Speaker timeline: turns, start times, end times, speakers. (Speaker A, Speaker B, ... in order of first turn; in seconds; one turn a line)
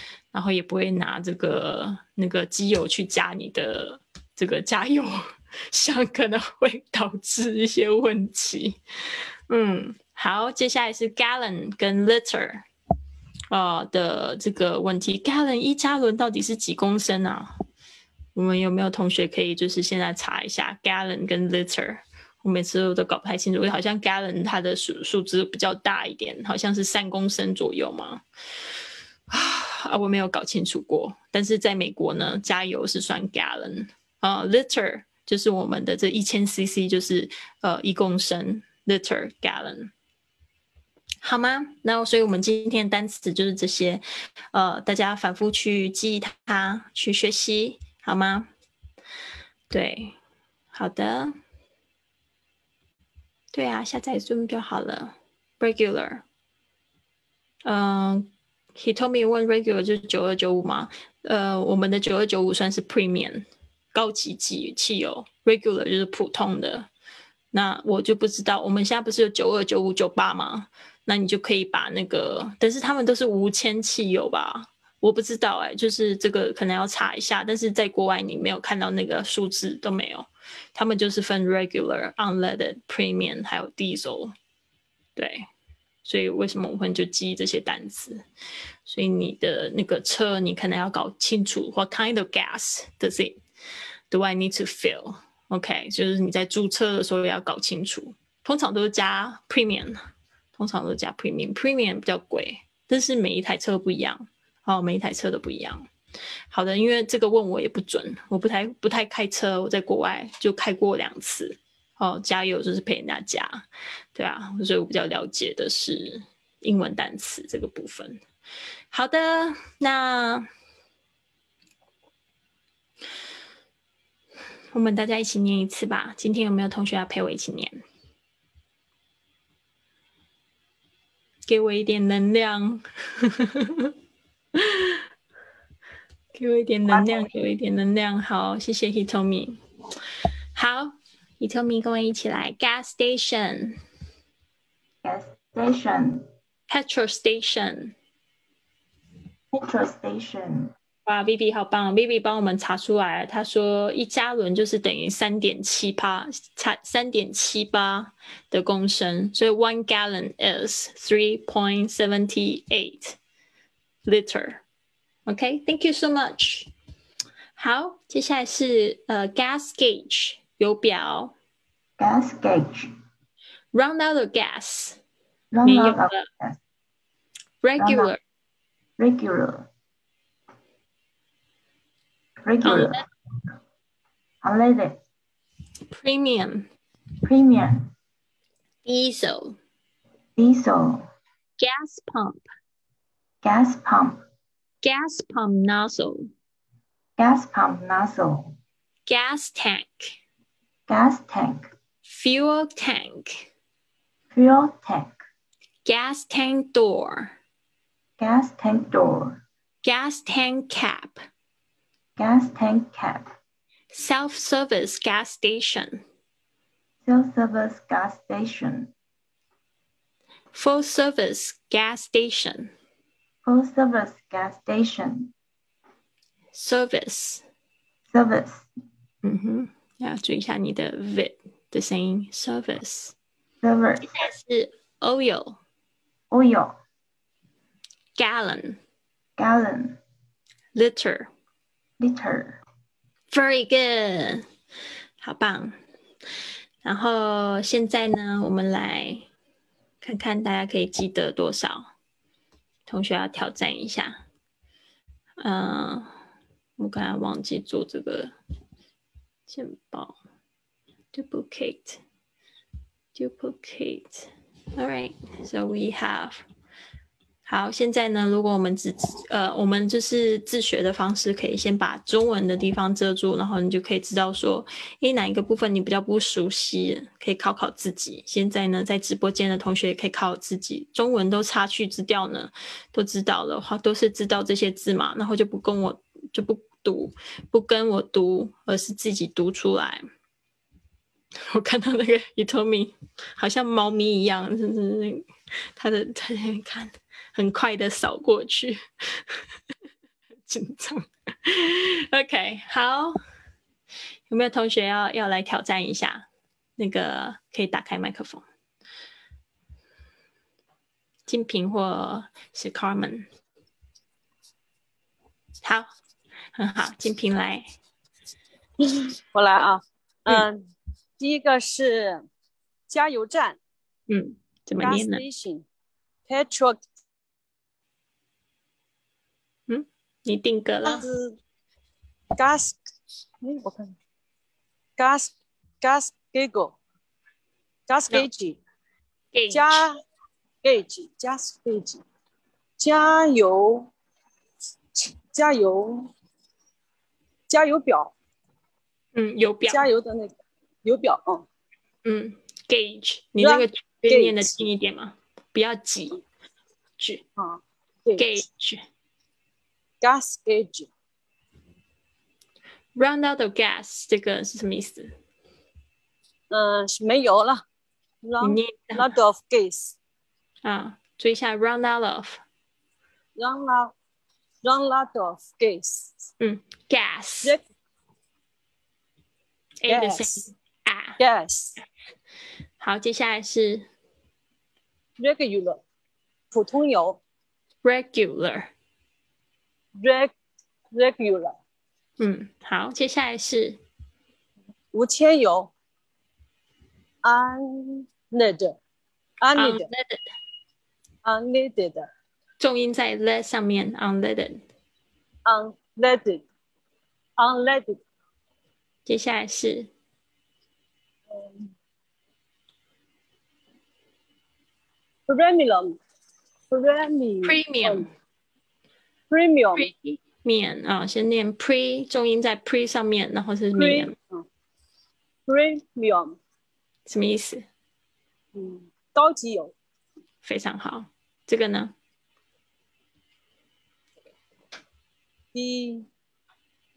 Speaker A: 0.3-5.2
Speaker A: 5.7-8.8
Speaker A: 9.5-12.6
Speaker A: 13.5-17.5
Speaker A: 18.3-28.2
Speaker A: 29.3-39.9
Speaker A: 41.2-48.5
Speaker A: 49.7-50.1
Speaker A: 50.7-51.3
Speaker A: 53.5-56.2
Speaker A: 57.6-66.9
Speaker A: 67.5-84.3
Speaker A: 85.2-85.5
Speaker A: 86.0-88.2
Speaker A: 88.8-93.4
Speaker A: 94.1-100.0
Speaker A: 100.5-105.8
Speaker A: 106.5-113.6
Speaker A: 114.1-118.2
Speaker A: 118.9-120.5
Speaker A: 124.7-127.8
Speaker A: 131.5-133.9
Speaker A: 134.6-134.9
Speaker A: 136.3-139.6
Speaker B: 136.9-137.3
Speaker A: 140.5-143.8
Speaker B: 145.0-146.2
Speaker A: 146.7-147.9
Speaker B: 149.5-150.7
Speaker A: 151.1-163.2
Speaker A: 164.0-164.6
Speaker A: 165.2-166.7
Speaker A: 167.6-171.3
Speaker B: 172.0-172.9
Speaker A: 173.7-175.0
Speaker B: 175.5-176.6
Speaker A: 175.6-176.2
Speaker A: 177.6-178.2
Speaker B: 177.8-178.1
Speaker B: 179.0-179.7
Speaker B: 182.4-183.0
Speaker A: 182.6-183.0
Speaker B: 184.4-185.0
Speaker A: 185.9-186.7
Speaker B: 187.2-187.8
Speaker A: 188.8-189.6
Speaker B: 190.4-191.0
Speaker A: 191.6-192.4
Speaker B: 193.4-194.2
Speaker A: 194.8-196.3
Speaker B: 197.2-198.5
Speaker A: 199.1-200.1
Speaker B: 200.9-201.7
Speaker A: 202.1-203.5
Speaker B: 204.3-205.2
Speaker A: 205.8-207.3
Speaker B: 208.2-209.4
Speaker A: 209.8-211.2
Speaker B: 212.2-213.3
Speaker A: 213.9-216.0
Speaker B: 217.1-218.9
Speaker A: 220.5-222.7
Speaker B: 223.4-225.3
Speaker A: 226.5-227.4
Speaker B: 228.1-228.7
Speaker A: 229.2-233.1
Speaker B: 233.6-234.1
Speaker A: 234.1-235.6
Speaker B: 236.3-236.7
Speaker A: 238.2-238.8
Speaker B: 239.4-240.0
Speaker A: 240.7-241.3
Speaker B: 242.0-242.6
Speaker A: 243.3-244.4
Speaker A: 245.2-245.8
Speaker A: 246.8-249.3
Speaker A: 250.0-251.9
Speaker A: 252.8-254.2
Speaker A: 255.4-256.1
Speaker A: 256.8-258.3
Speaker A: 259.5-260.2
Speaker A: 261.1-262.0
Speaker A: 263.1-266.4
Speaker A: 267.4-290.0
Speaker A: 291.5-299.4
Speaker A: 300.4-303.1
Speaker A: 304.3-306.2
Speaker A: 306.8-308.4
Speaker A: 311.3-313.3
Speaker A: 315.6-315.9
Speaker A: 316.5-317.7
Speaker C: 318.8-320.6
Speaker C: 321.2-322.2
Speaker C: 322.9-323.6
Speaker A: 324.1-325.2
Speaker C: 324.8-325.6
Speaker C: 326.3-326.8
Speaker A: 329.7-331.1
Speaker C: 330.8-331.4
Speaker C: 332.4-332.8
Speaker C: 333.4-333.9
Speaker C: 335.0-336.8
Speaker C: 337.9-338.6
Speaker A: 339.3-339.8
Speaker C: 339.5-339.9
Speaker C: 340.6-342.0
Speaker C: 342.8-343.9
Speaker C: 344.9-346.1
Speaker C: 347.5-348.1
Speaker A: 349.1-349.9
Speaker C: 349.7-350.3
Speaker C: 350.8-351.4
Speaker A: 352.0-356.2
Speaker C: 353.4-354.6
Speaker A: 357.0-357.2
Speaker C: 357.4-358.2
Speaker A: 358.2-358.8
Speaker C: 360.0-360.9
Speaker A: 362.9-365.1
Speaker C: 366.5-367.6
Speaker C: 368.2-369.9
Speaker A: 368.4-369.0
Speaker A: 370.6-372.4
Speaker C: 373.4-373.9
Speaker C: 374.6-376.3
Speaker A: 376.4-377.6
Speaker A: 379.8-381.2
Speaker C: 379.9-380.5
Speaker C: 381.2-381.8
Speaker A: 382.8-383.9
Speaker C: 385.2-385.8
Speaker C: 386.5-387.2
Speaker A: 387.8-388.7
Speaker C: 390.0-390.3
Speaker C: 390.9-391.5
Speaker A: 392.2-393.8
Speaker C: 394.9-395.7
Speaker C: 397.2-398.8
Speaker C: 399.4-399.9
Speaker A: 399.6-400.2
Speaker C: 401.2-402.1
Speaker A: 402.6-404.6
Speaker C: 405.4-406.4
Speaker C: 407.4-408.0
Speaker A: 409.1-409.9
Speaker C: 411.3-411.7
Speaker C: 415.3-416.0
Speaker C: 416.7-418.1
Speaker A: 417.4-418.1
Speaker C: 419.3-419.9
Speaker A: 419.7-424.1
Speaker C: 423.8-424.4
Speaker C: 425.5-426.4
Speaker A: 427.1-427.6
Speaker C: 428.5-429.7
Speaker A: 430.4-431.9
Speaker C: 435.5-436.1